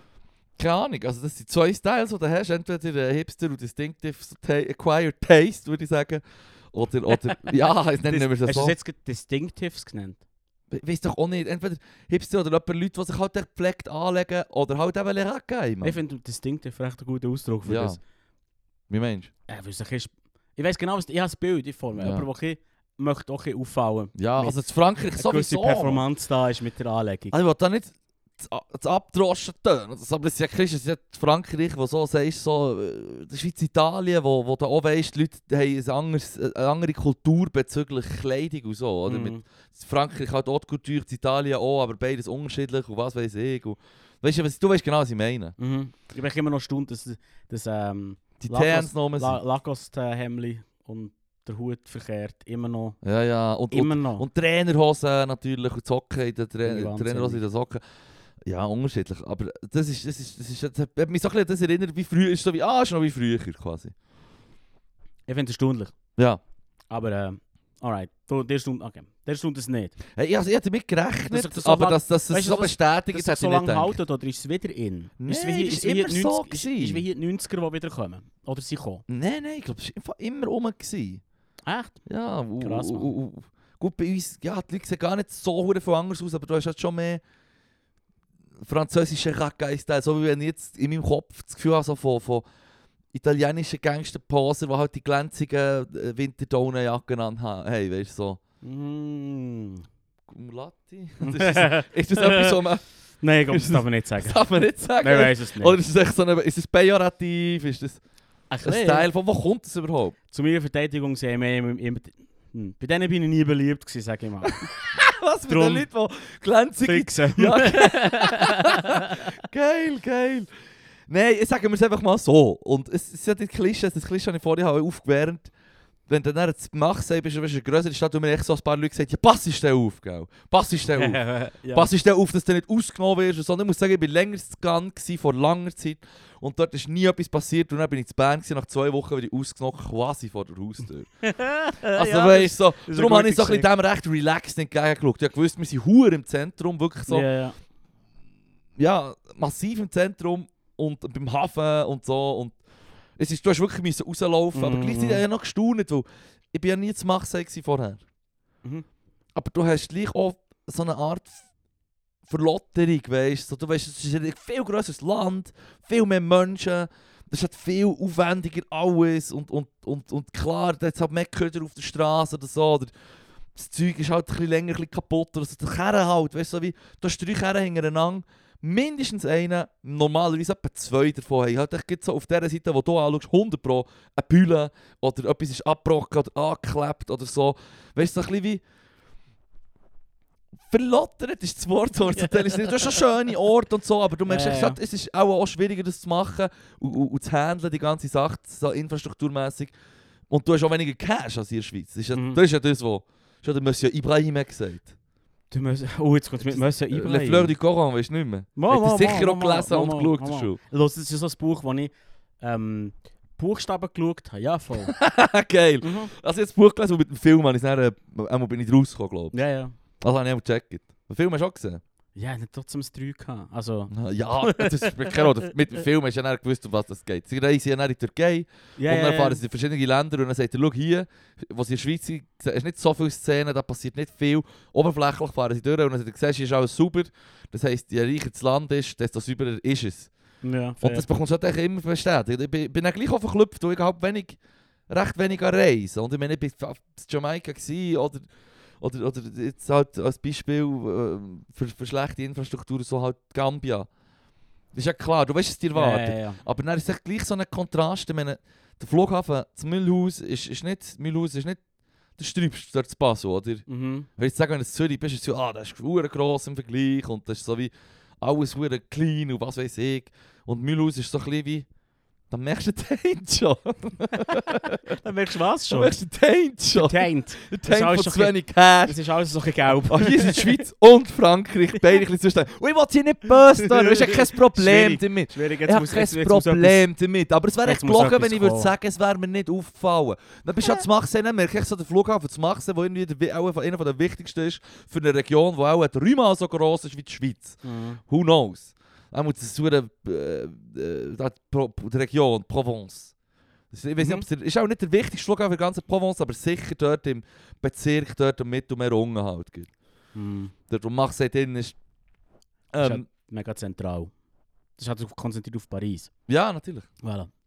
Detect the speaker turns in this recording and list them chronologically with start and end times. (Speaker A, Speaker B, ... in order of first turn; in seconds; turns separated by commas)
Speaker A: 0.6-6.2, Speaker A: 6.7-8.8, Speaker B: 8.1-10.2, Speaker A: 10.7-16.0, Speaker B: 15.8-18.0, Speaker A: 17.7-18.0, Speaker A: 18.9-19.3, Speaker B: 19.5-24.6, Speaker A: 21.9-22.3, Speaker A: 24.1-26.0, Speaker B: 25.1-27.4, Speaker A: 27.3-45.5, Speaker B: 39.0-39.4, Speaker B: 45.6-53.0, Speaker A: 48.4-49.4, Speaker A: 53.0-57.8, Speaker B: 53.7-54.2, Speaker B: 56.6-57.4, Speaker A: 58.5-63.9, Speaker B: 65.3-65.9, Speaker B: 66.9-70.0, Speaker A: 70.2-74.0, Speaker B: 71.3-79.0, Speaker A: 75.2-77.0, Speaker A: 79.1-81.2, Speaker B: 81.7-82.0, Speaker A: 82.0-87.2, Speaker B: 82.6-83.1, Speaker A: 88.6-92.4, Speaker A: 93.1-98.4, Speaker B: 98.6-99.8, Speaker A: 100.3-102.8, Speaker B: 101.2-102.6, Speaker B: 103.2-104.4, Speaker A: 103.5-108.0, Speaker B: 105.0-105.8, Speaker B: 108.5-109.1, Speaker A: 108.6-110.1, Speaker B: 110.3-114.7, Speaker A: 114.5-120.5, Speaker B: 115.5-115.8, Speaker B: 116.8-119.3, Speaker A: 121.1-125.5, Speaker A: 126.1-141.1, Speaker B: 130.9-131.9, Speaker B: 141.2-143.7, Speaker A: 141.9-147.3, Speaker B: 147.1-147.5, Speaker A: 148.8-152.6, Speaker A: 153.2-158.0, Speaker B: 154.5-155.2, Speaker A: 159.3-161.4, Speaker A: 162.2-172.9, Speaker A: 173.6-188.6, Speaker A: 190.7-199.7, Speaker B: 194.3-194.8, Speaker A: 200.3-204.9, Speaker B: 202.1-202.4, Speaker B: 205.5-207.5, Speaker A: 206.4-210.6, Speaker B: 208.6-214.9, Speaker A: 214.8-219.4, Speaker B: 215.8-216.1, Speaker B: 219.3-219.7, Speaker A: 220.0-221.8, Speaker B: 222.1-225.3, Speaker A: 223.9-240.1, Speaker B: 228.8-229.4, Speaker B: 240.4-241.1, Speaker A: 240.8-244.4, Speaker A: 244.9-248.3, Speaker A: 248.8-253.9, Speaker A: 254.7-261.6, Speaker B: 255.7-256.4, Speaker A: 262.2-263.6, Speaker B: 263.7-264.1, Speaker A: 264.2-271.6, Speaker A: 272.3-274.9, Speaker B: 274.5-275.9, Speaker A: 275.7-279.0, Speaker B: 276.7-280.6, Speaker A: 279.7-303.1, Speaker B: 283.6-286.8, Speaker B: 287.6-288.7, Speaker B: 297.6-298.0, Speaker A: 303.7-309.7, Speaker B: 304.0-304.2, Speaker B: 310.1-310.5, Speaker A: 310.7-311.8, Speaker A: 312.7-313.1, Speaker B: 312.8-314.1, Speaker B: 314.8-316.1, Speaker A: 316.3-316.9, Speaker B: 317.0-317.3